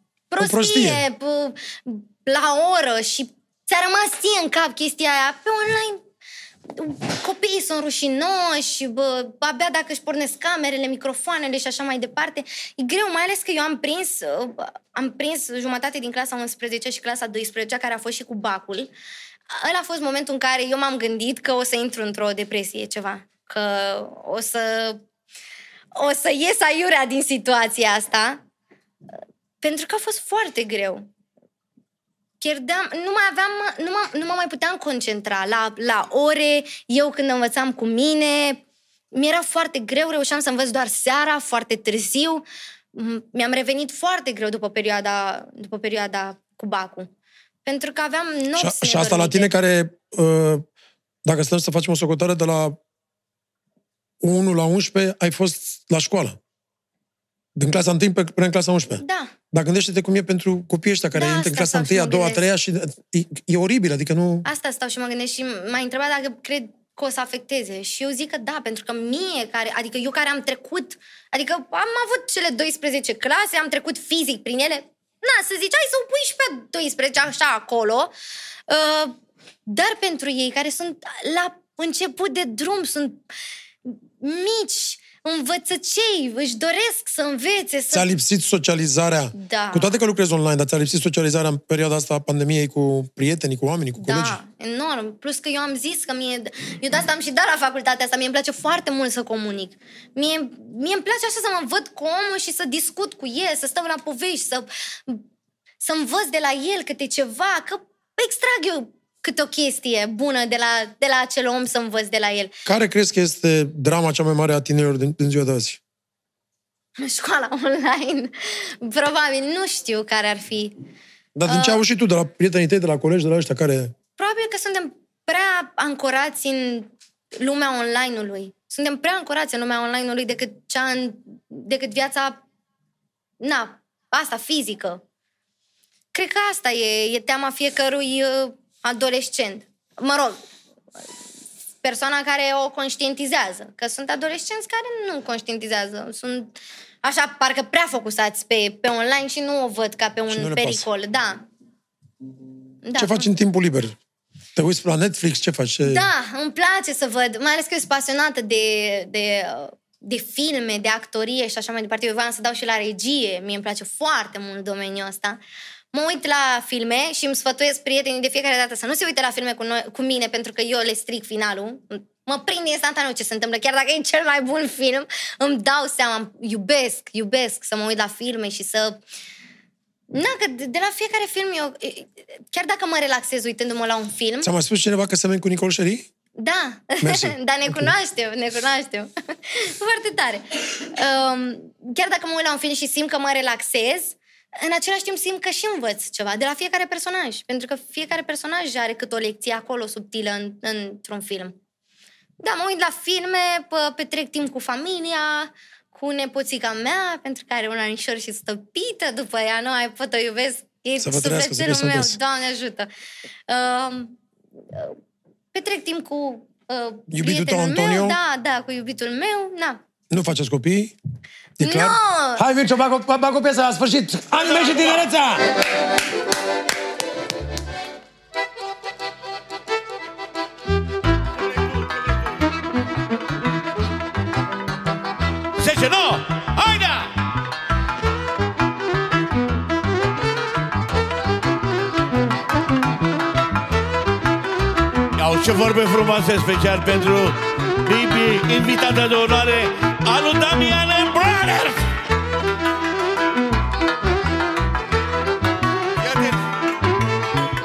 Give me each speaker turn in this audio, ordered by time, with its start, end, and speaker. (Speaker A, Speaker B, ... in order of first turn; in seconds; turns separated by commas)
Speaker A: 0.3-6.0, Speaker B: 0.4-1.0, Speaker A: 6.7-18.9, Speaker A: 19.5-25.0, Speaker A: 25.9-28.4, Speaker A: 29.6-31.1, Speaker A: 32.4-38.6, Speaker A: 39.1-47.1, Speaker A: 47.6-49.5, Speaker B: 48.5-50.6, Speaker B: 51.2-52.8, Speaker B: 54.2-56.4, Speaker B: 57.5-64.5, Speaker A: 59.0-59.3, Speaker A: 61.1-62.4, Speaker A: 64.4-78.1, Speaker A: 78.7-79.1, Speaker A: 79.7-83.2, Speaker A: 83.8-88.1, Speaker B: 87.9-94.4, Speaker A: 89.3-90.0, Speaker A: 94.0-105.2, Speaker A: 105.8-112.5, Speaker B: 112.7-115.8, Speaker A: 117.0-120.8, Speaker B: 121.3-123.9, Speaker A: 121.5-121.8, Speaker A: 124.2-132.4, Speaker A: 133.4-135.0, Speaker A: 136.1-140.4, Speaker A: 141.8-151.4, Speaker B: 150.3-150.8, Speaker A: 152.8-153.3, Speaker B: 152.9-153.9, Speaker B: 154.6-156.1, Speaker A: 155.8-165.4, Speaker A: 165.9-179.0, Speaker A: 180.1-184.5, Speaker B: 184.4-186.1, Speaker A: 186.4-201.6, Speaker B: 187.0-187.9, Speaker A: 202.4-212.9, Speaker B: 211.0-212.2, Speaker A: 213.5-214.2, Speaker A: 214.7-215.0, Speaker A: 215.5-219.8, Speaker B: 217.1-218.2, Speaker B: 220.1-220.9, Speaker B: 221.6-225.6, Speaker A: 221.6-222.4, Speaker C: 231.4-232.2, Speaker C: 235.6-237.3, Speaker C: 245.1-251.8, Speaker C: 256.0-256.5